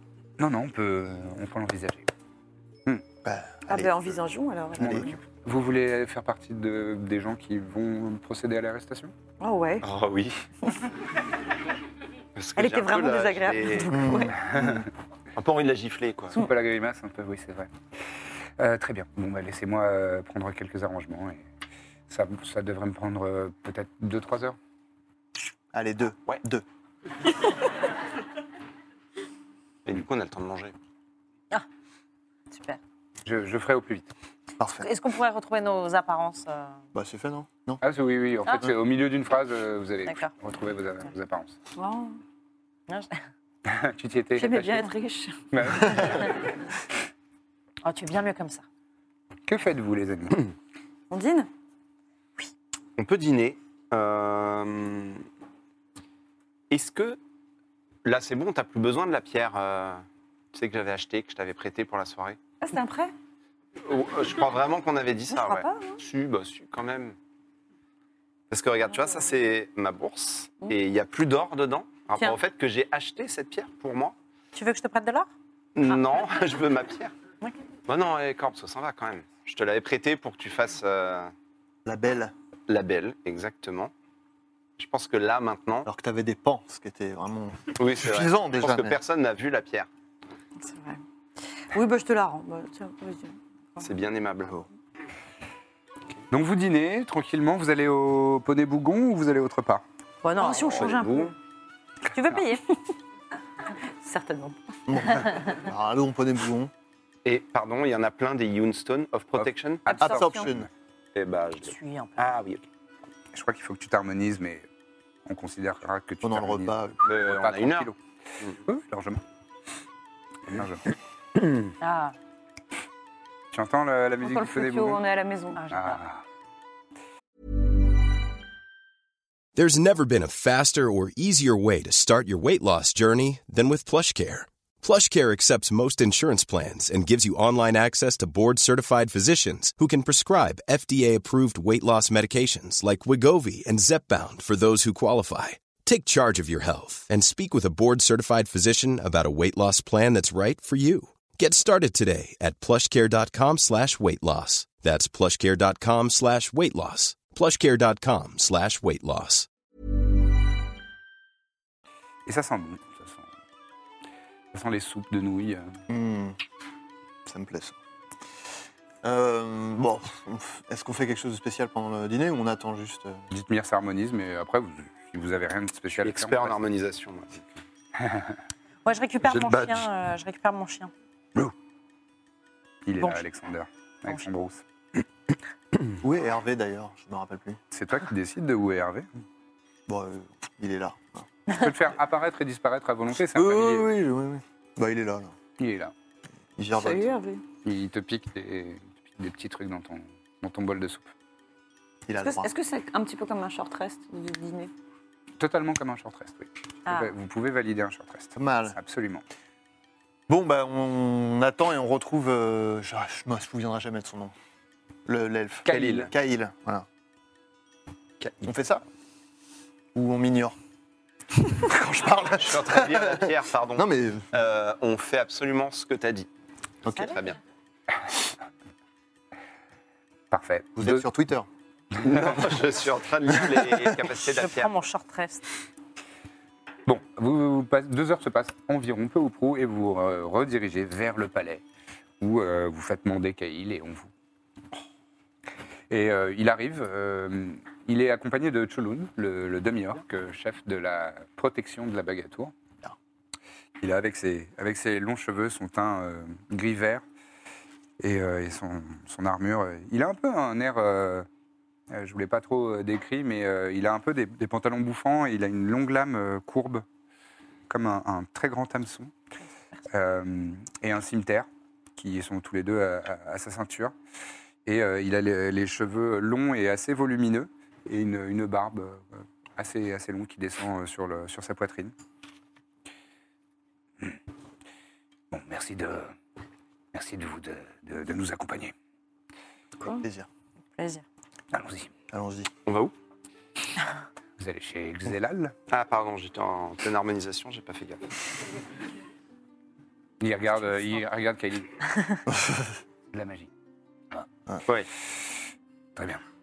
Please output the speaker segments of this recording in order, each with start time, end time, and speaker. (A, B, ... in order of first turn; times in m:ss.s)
0:00.4-0:02.1 A
0:03.2-0:04.2 B
0:03.7-0:05.2 C
0:04.8-0:05.1 B
0:04.8-0:09.1 A
0:09.4-0:09.8 C
0:09.8-0:10.4 D
0:12.4-0:14.3 D
0:12.6-0:14.4 C
0:13.9-0:14.8 B
0:14.3-0:14.9 A
0:15.4-0:16.4 D
0:16.3-0:17.7 A
0:18.6-0:21.5 A
0:22.1-0:24.6 A
0:25.7-0:26.6 B
0:29.8-0:30.7 D
0:32.5-0:32.8 E
0:33.2-0:34.1 A
0:34.6-0:34.9 B
0:34.8-0:36.8 E
0:37.0-0:37.8 B
0:37.8-0:41.6 A
0:40.1-0:40.3 E
0:41.8-0:42.2 C
0:42.9-0:43.2 E
0:43.6-0:44.9 A
0:44.4-0:46.1 C
0:45.5-0:46.4 A
0:47.8-0:48.6 E
0:49.5-0:50.5 A
0:51.1-0:51.5 C
0:53.0-0:55.2 D
0:56.7-0:57.2 D
0:58.0-1:02.4 D
1:02.6-1:03.1 C
1:03.8-1:07.2 D
1:05.3-1:06.0 C
1:08.5-1:14.2 D
1:14.6-1:15.3 E
1:15.8-1:17.1 D
1:17.9-1:21.3 D
1:21.8-1:22.3 B
1:22.7-1:23.9 D
1:24.8-1:25.9 D
1:25.9-1:29.0 B
1:27.8-1:29.9 D
1:30.6-1:31.0 C
1:31.7-1:33.9 C
1:33.8-1:34.6 D
1:36.3-1:39.8 A
1:40.2-1:41.4 C
1:40.5-1:40.9 E
1:40.5-1:41.3 D
1:42.1-1:42.7 E
1:44.0-1:45.3 C
1:44.9-1:46.7 B
1:47.2-1:49.8 D
1:49.4-1:50.7 A
1:49.9-1:50.5 C
1:50.0-1:50.7 B
1:51.2-1:52.6 D
1:51.7-1:52.3 E
1:53.3-1:54.7 A
1:55.2-1:58.0 A
1:56.2-1:57.0 B
1:57.0-1:57.9 D
1:58.7-1:59.2 A
2:00.5-2:00.9 A
2:01.8-2:02.2 E
2:03.5-2:05.0 A
2:04.2-2:05.8 C
2:05.6-2:06.0 E
2:05.7-2:06.2 A
2:09.6-2:39.5 F
2:42.3-2:43.3 A
2:44.5-2:45.8 A
2:45.9-2:46.4 B
2:47.3-2:47.8 B
2:49.0-2:53.2 B
2:53.3-2:56.6 A
2:56.0-2:57.6 D
2:58.0-2:58.4 A
2:58.8-3:00.9 E
2:59.3-2:59.9 D
3:02.8-3:04.6 A
3:06.0-3:07.6 B
3:07.7-3:09.1 A
3:09.9-3:11.3 B
3:11.5-3:13.9 A
3:13.1-3:15.4 B
3:15.6-3:15.9 A
3:16.6-3:17.2 B
3:16.8-3:17.4 C
3:17.6-3:21.1 A
3:22.1-3:22.5 B
3:22.2-3:24.7 C
3:25.4-3:29.2 A
3:26.9-3:27.1 C
3:28.4-3:28.8 B
3:30.3-3:34.3 B
3:35.1-3:36.9 B
3:35.7-3:36.1 A
3:38.4-3:38.8 B
3:40.0-3:40.6 B
3:41.5-3:44.2 B
3:42.4-3:46.3 D
3:46.8-3:47.4 D
3:46.9-3:47.1 B
3:50.3-3:51.0 A
3:50.8-3:51.5 B
3:52.0-3:52.4 A
3:52.0-3:54.7 D
3:54.3-3:55.4 E
3:56.9-4:01.6 A
4:02.2-4:04.1 A
4:05.9-4:12.5 A
4:13.8-4:17.0 A
4:18.0-4:21.3 A
4:21.9-4:26.8 A
4:27.7-4:29.1 A
4:29.9-4:34.0 A
4:34.6-4:41.9 A
4:45.3-4:46.1 A
4:46.9-4:48.7 A
4:49.8-4:50.3 B
4:50.8-4:51.0 E
4:51.5-4:51.9 A
4:52.1-4:52.5 B
4:52.7-4:52.9 D
4:54.4-4:55.6 A
4:55.7-4:58.0 D
5:00.2-5:01.9 A
5:02.3-5:02.8 B
5:03.1-5:03.5 A
5:06.0-5:06.2 A